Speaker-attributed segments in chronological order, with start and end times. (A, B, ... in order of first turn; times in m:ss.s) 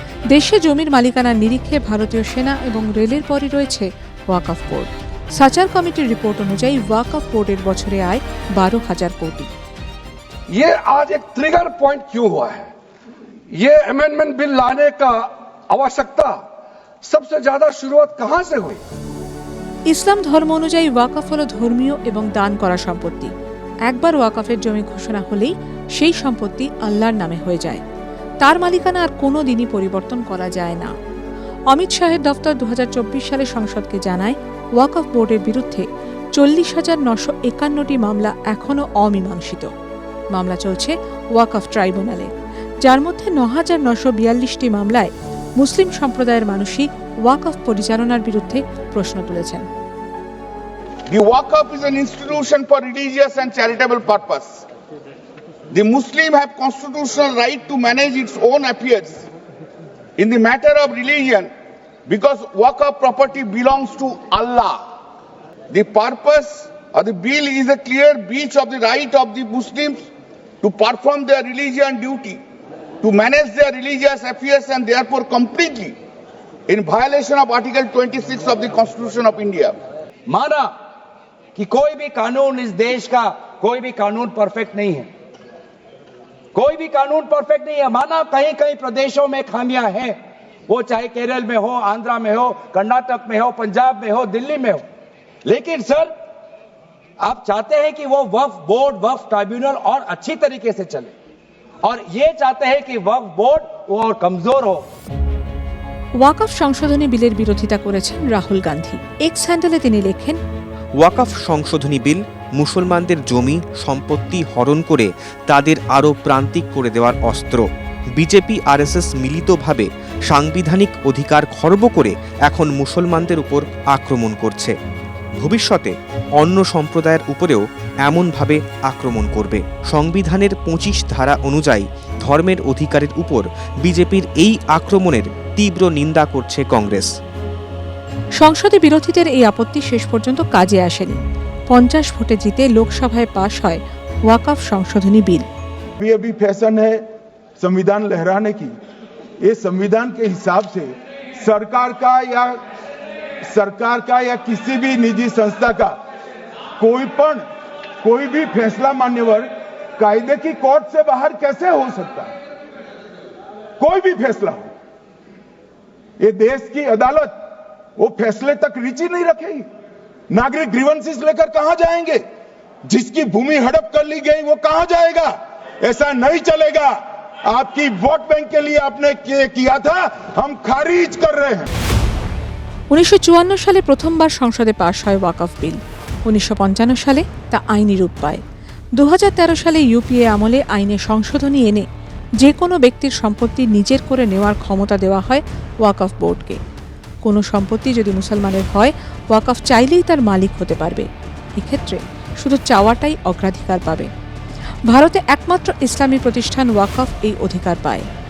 0:00.3-0:09.5 A
0:10.5-0:12.7 B
0:13.6-0:16.3 B
0:17.0-0:18.8 B
0:19.9-0:23.3 A
0:23.9-0:27.8 A
0:28.4-0:30.9 A
0:31.7-0:35.8 A
0:36.4-0:39.7 A
0:40.3-0:49.7 A
0:51.1-0:54.6 C
0:55.7-0:59.3 C
1:00.2-1:01.5 C
1:02.1-1:04.8 C
1:05.7-1:10.1 C
1:10.6-1:12.4 C
1:13.0-1:16.0 C
1:16.7-1:19.8 C
1:20.3-1:20.7 D
1:21.6-1:25.1 D
1:26.5-1:34.8 D
1:35.4-1:36.1 D
1:37.2-1:41.1 D
1:41.8-1:44.9 D
1:46.2-1:50.4 A
1:51.0-1:57.6 E
1:58.2-2:04.7 E
2:05.4-2:17.1 E
2:18.4-2:21.2 A
2:21.7-2:25.5 A
2:26.0-2:27.0 F
2:27.6-2:28.8 F
2:29.4-2:32.6 F
2:33.4-2:36.0 F
2:36.8-2:37.4 F
2:38.0-2:42.3 F
2:43.8-2:44.7 F
2:46.2-2:47.4 F
2:48.0-2:49.7 F
2:50.3-2:52.2 F
2:52.9-3:01.7 F
3:02.9-3:08.4 A
3:09.0-3:11.8 A
3:12.4-3:16.6 A
3:17.2-3:24.1 A
3:24.9-3:28.0 A